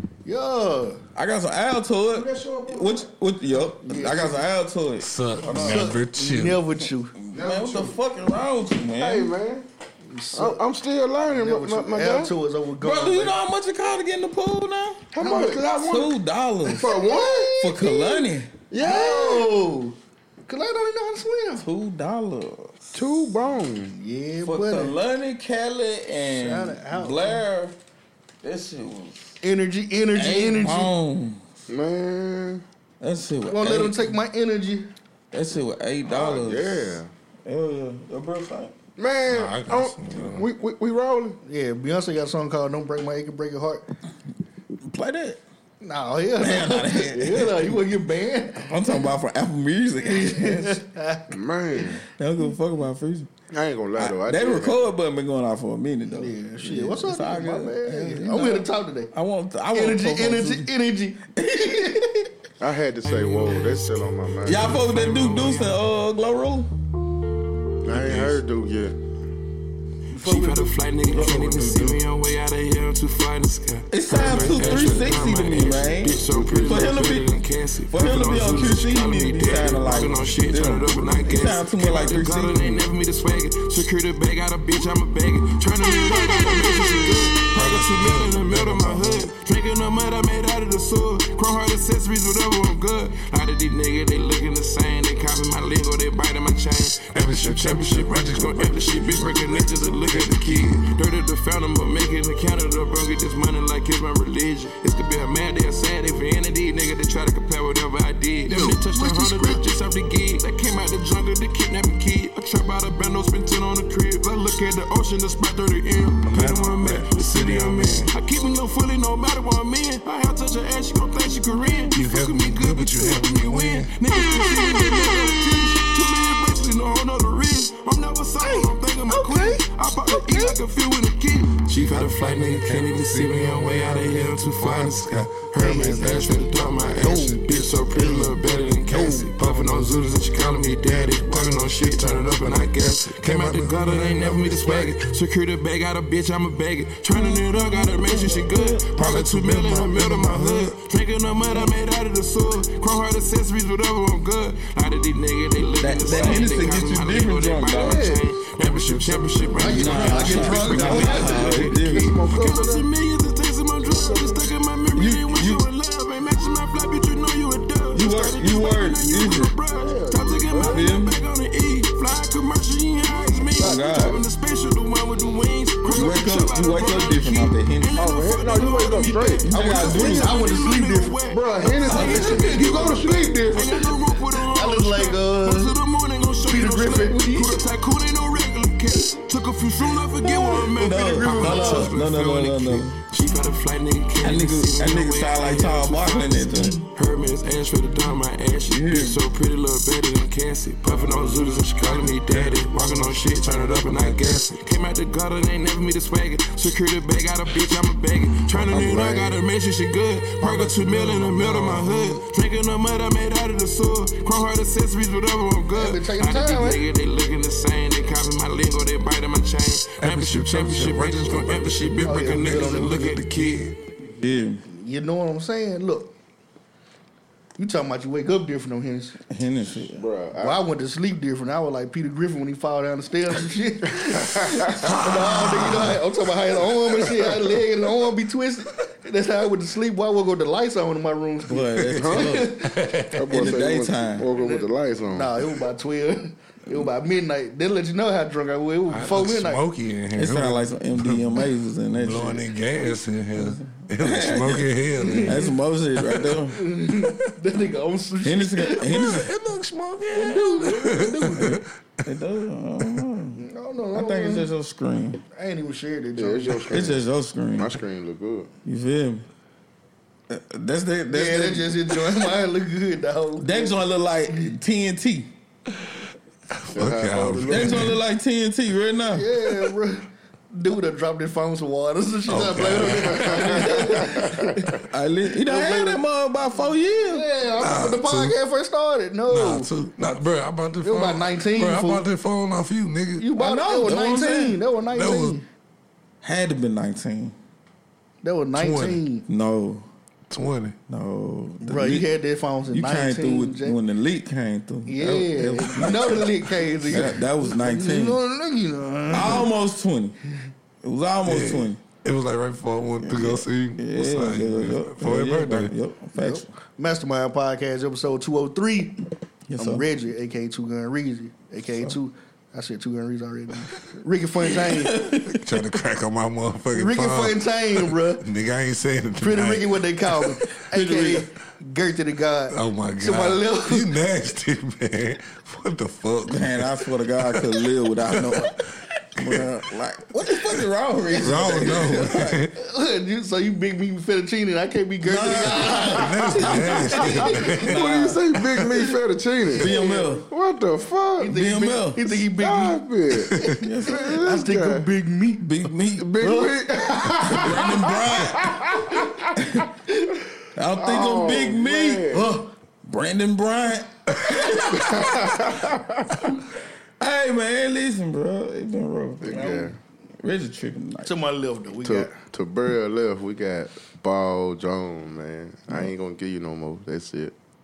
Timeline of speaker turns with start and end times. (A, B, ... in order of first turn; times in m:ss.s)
0:00.2-0:01.0 A
0:01.2-0:06.0 B
0:02.1-0:03.0 C
0:03.8-0:04.4 A
0:05.0-0:06.6 D
0:05.5-0:07.2 A
0:07.2-0:09.4 B
0:07.3-0:08.0 C
0:09.0-0:09.7 C
0:10.1-0:10.6 A
0:10.3-0:12.3 C
0:11.3-0:13.4 A
0:12.8-0:15.1 B
0:15.1-0:16.2 C
0:15.2-0:15.7 A
0:15.8-0:18.5 B
0:16.6-0:20.0 A
0:16.8-0:17.5 C
0:18.7-0:19.6 C
0:20.5-0:21.6 A
0:21.6-0:23.2 B
0:23.0-0:24.0 C
0:24.0-0:24.9 A
0:24.4-0:27.8 B
0:26.3-0:27.4 A
0:28.4-0:29.4 B
0:29.4-0:30.9 A
0:30.1-0:31.4 B
0:31.7-0:32.6 C
0:33.0-0:34.2 B
0:33.5-0:34.9 A
0:35.3-0:38.7 B
0:36.1-0:37.1 C
0:39.0-0:41.4 C
0:39.3-0:40.5 D
0:41.4-0:43.8 A
0:44.8-0:45.4 B
0:45.8-0:48.7 A
0:46.4-0:47.8 B
0:48.6-0:50.8 B
0:50.0-0:51.4 A
0:51.3-0:52.0 C
0:52.2-0:53.3 B
0:53.5-0:54.8 C
0:54.0-1:00.7 B
0:56.1-0:59.1 A
0:59.7-1:02.0 A
1:01.3-1:02.3 B
1:02.6-1:04.7 C
1:03.0-1:05.8 E
1:04.4-1:06.7 B
1:07.8-1:09.0 C
1:07.9-1:08.4 D
1:10.1-3:43.7 E
1:10.3-1:10.6 C
1:11.1-1:12.0 B
1:13.9-1:17.3 B
1:14.1-1:15.6 D
1:16.2-1:17.2 C
1:17.9-1:22.9 B
1:27.5-1:29.3 D
1:37.1-1:40.7 D
1:48.5-1:49.6 D
1:56.2-1:58.1 D
2:01.9-2:03.9 D
2:08.5-2:10.6 A
2:11.7-2:25.0 D
2:15.6-2:16.4 A
2:17.0-2:17.4 A
2:18.0-2:18.2 A
2:18.9-2:19.2 A
2:27.1-2:28.8 B
2:29.0-2:30.7 D
2:35.8-2:38.0 B
2:36.2-2:36.8 D
2:37.8-2:38.3 C
2:38.6-2:41.4 D
2:39.6-2:41.5 A
2:39.7-2:42.2 B
2:41.2-2:42.9 C
2:43.8-2:44.5 C
2:45.0-2:45.7 B
2:47.9-2:49.6 B
2:49.7-2:50.9 C
2:50.6-2:51.2 B
2:53.6-2:54.2 B
2:55.9-2:58.0 B
2:58.0-3:00.2 C
2:59.5-3:00.4 B
2:59.5-3:01.2 A
3:01.3-3:03.8 C
3:01.8-3:02.5 B
3:01.9-3:03.0 A
3:04.4-3:05.8 A
3:06.5-3:07.7 A
3:10.2-3:13.0 B
3:11.2-3:11.9 D
3:14.2-3:16.8 B
3:18.7-3:19.2 B
3:21.6-3:24.5 D
3:28.5-3:29.4 B
3:30.4-3:31.7 D
3:30.4-3:32.0 B
3:35.7-3:36.8 A
3:40.0-3:43.7 D
3:42.0-3:43.0 A
3:44.2-3:44.6 B
3:44.7-3:46.1 A
3:47.6-3:49.2 A
3:49.3-3:50.1 B
3:49.9-3:50.6 C
3:50.4-4:02.7 A
3:54.1-3:54.8 C
3:54.8-3:56.0 B
4:01.5-4:02.6 B
4:01.8-4:03.5 D
4:02.0-4:02.4 C
4:03.2-4:05.3 C
4:03.3-4:04.3 B
4:04.4-4:09.6 A
4:08.9-4:15.4 D
4:10.1-4:12.5 B
4:13.4-4:16.6 B
4:15.0-4:15.5 A
4:16.0-4:16.3 D
4:16.5-4:19.0 A
4:18.2-4:19.3 B
4:18.8-4:21.6 D
4:20.1-4:21.6 A
4:21.4-4:23.4 B
4:23.4-4:24.5 A
4:24.0-4:25.2 B
4:25.3-4:26.8 A
4:26.2-4:27.0 C
4:26.7-4:27.7 B
4:27.6-4:28.5 C
4:28.6-4:29.3 B
4:30.3-4:31.9 B
4:31.1-4:33.8 A
4:33.4-4:35.3 B
4:36.6-4:38.0 D
4:36.7-4:37.9 C
4:37.5-4:39.3 B
4:39.1-4:44.8 A
4:42.3-4:43.7 D
4:43.0-4:44.5 C
4:43.4-4:44.3 B
4:44.9-4:47.3 B
4:45.4-4:46.0 A
4:47.1-4:49.7 A
4:47.6-4:48.4 D
4:49.3-4:53.3 D
4:50.8-4:52.0 A
4:53.2-4:55.4 A
4:53.3-4:54.6 B
4:54.9-4:55.4 D
4:56.2-4:57.4 B
4:58.2-4:59.3 A
4:58.6-4:59.0 D
4:59.3-4:59.9 B
5:00.3-5:00.8 D
5:00.9-5:02.1 B
5:01.6-5:03.8 A
5:02.7-5:08.2 B
5:04.9-5:09.5 A
5:09.1-5:10.2 B
5:10.8-5:11.8 B
5:11.3-5:15.7 D
5:13.0-5:16.5 B
5:16.2-5:19.0 A
5:19.5-5:19.8 B
5:19.6-5:25.1 A
5:21.7-5:22.0 B
5:24.4-5:25.4 B
5:25.2-5:29.8 D
5:26.7-5:28.2 A
5:29.2-5:33.9 A
5:30.7-5:31.3 B
5:32.5-5:38.5 D
5:36.2-5:38.6 B
5:39.2-5:42.4 B
5:39.2-5:39.5 D
5:41.1-5:47.6 A
5:41.2-5:42.6 D
5:45.0-5:48.4 B
5:45.9-5:47.8 D
5:47.4-5:49.8 C
5:49.5-5:50.3 B
5:49.6-5:50.2 A
5:50.3-5:51.3 C
5:51.2-5:55.7 A
5:51.3-5:52.2 B
5:52.4-5:54.9 C
5:53.4-5:53.6 D
5:53.5-5:54.2 B
5:55.4-5:56.4 B
5:56.0-5:59.5 C
5:56.2-5:57.4 A
5:57.3-5:58.6 B
6:00.6-6:02.1 B
6:00.8-6:02.3 C
6:02.1-6:02.5 A
6:02.8-6:05.6 B
6:04.6-6:06.0 C
6:07.0-6:11.1 B
6:09.2-6:09.8 C
6:11.0-6:12.2 A
6:11.8-6:17.4 C